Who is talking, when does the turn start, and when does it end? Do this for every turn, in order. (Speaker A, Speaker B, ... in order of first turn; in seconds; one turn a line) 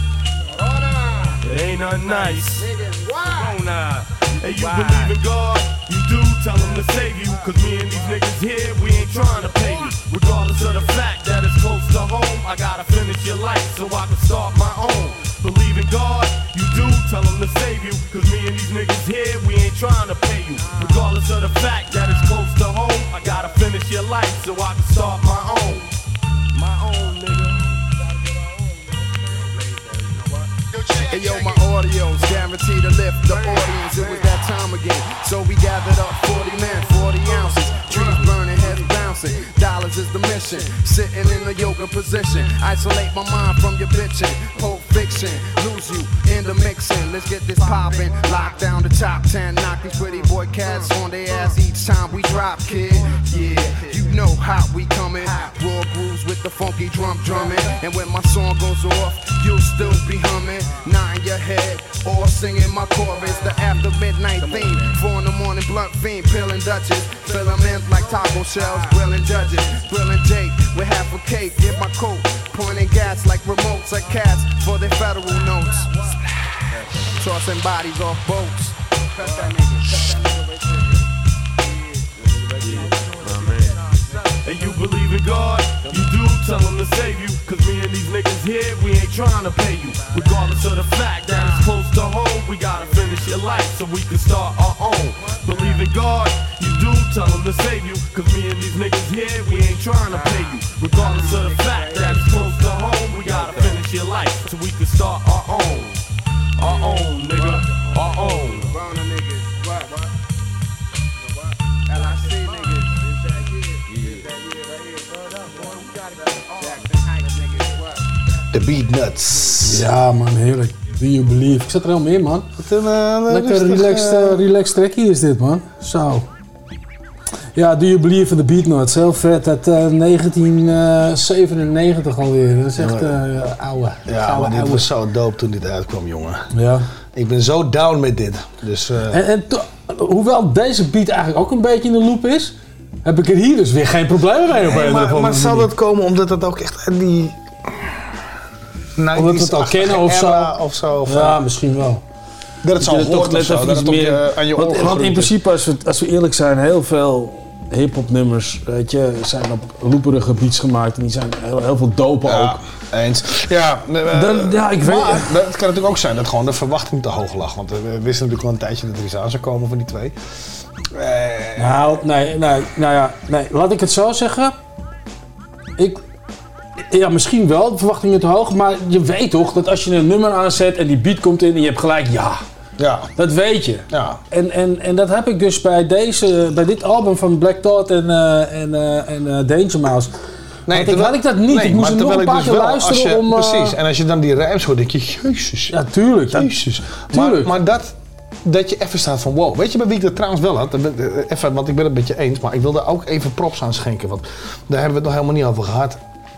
Speaker A: 1.4-2.6
Speaker A: 3.3-25.9
Speaker A: 26.9-27.5
Speaker B: 31.1-75.8
Speaker A: 84.4-106.0
Speaker A: 106.6-108.7
Speaker C: 118.5-119.9
Speaker D: 119.6-122.5
Speaker C: 122.6-124.4
Speaker D: 123.3-126.2
Speaker D: 127.5-134.8
Speaker C: 132.8-133.1
Speaker C: 134.1-136.4
Speaker D: 136.5-136.8
Speaker C: 137.1-139.2
Speaker D: 139.1-142.5
Speaker D: 143.0-145.7
Speaker C: 144.5-147.9
Speaker C: 149.0-151.4
Speaker D: 149.1-150.5
Speaker D: 151.1-152.0
Speaker C: 152.6-155.3
Speaker D: 152.8-162.6
Speaker C: 162.2-170.2
Speaker D: 164.1-165.3
Speaker C: 170.9-171.9
Speaker D: 171.6-174.6
Speaker D: 176.9-182.4
Speaker C: 182.8-183.1
Speaker D: 183.2-190.1
Speaker C: 183.9-184.2
Speaker C: 190.7-195.8
Speaker D: 190.7-193.8
Speaker D: 195.7-197.5
Speaker C: 196.3-206.0